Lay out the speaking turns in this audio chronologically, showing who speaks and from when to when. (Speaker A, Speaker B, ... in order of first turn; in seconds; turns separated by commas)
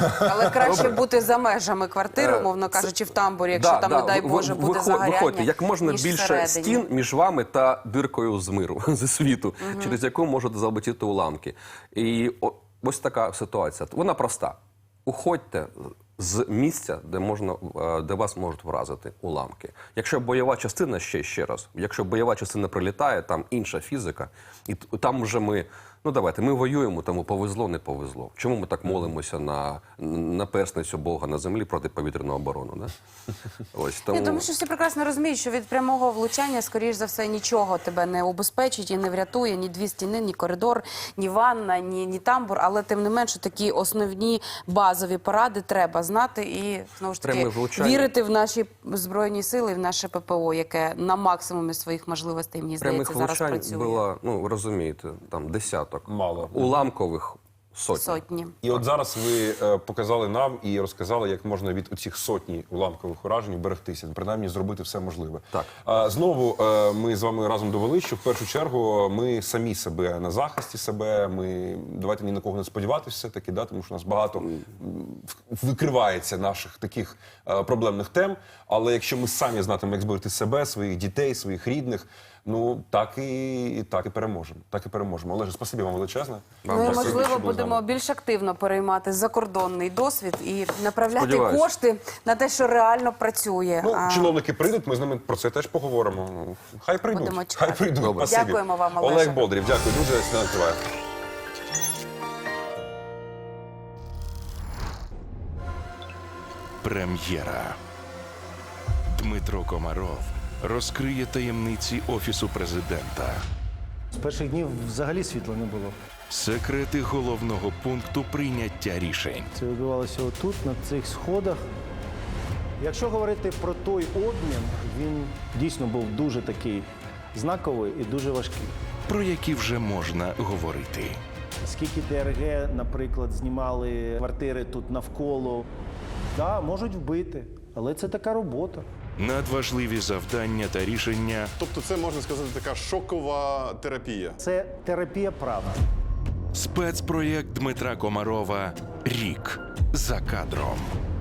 Speaker A: 0.2-6.8, Speaker B: 0.6-1.0, Speaker B: 2.1-2.9, Speaker B: 3.5-32.9, Speaker A: 9.6-10.0, Speaker B: 33.7-34.5, Speaker A: 34.1-54.0, Speaker B: 47.2-48.1, Speaker B: 52.8-58.8, Speaker C: 56.1-56.7, Speaker A: 57.9-58.5, Speaker C: 58.6-87.8, Speaker B: 86.6-87.1, Speaker A: 86.7-94.3, Speaker B: 91.2-91.7, Speaker C: 93.8-100.8, Speaker A: 97.1-99.5, Speaker B: 98.0-98.4, Speaker D: 106.8-107.8, Speaker D: 109.1-113.4, Speaker E: 114.1-115.9, Speaker D: 116.3-119.5, Speaker E: 119.5-121.6, Speaker E: 122.8-128.7, Speaker D: 129.1-131.2, Speaker E: 131.6-135.6, Speaker E: 136.3-138.8, Speaker D: 139.2-141.5, Speaker F: 141.6-144.4, Speaker E: 144.4-145.8, Speaker D: 146.5-150.9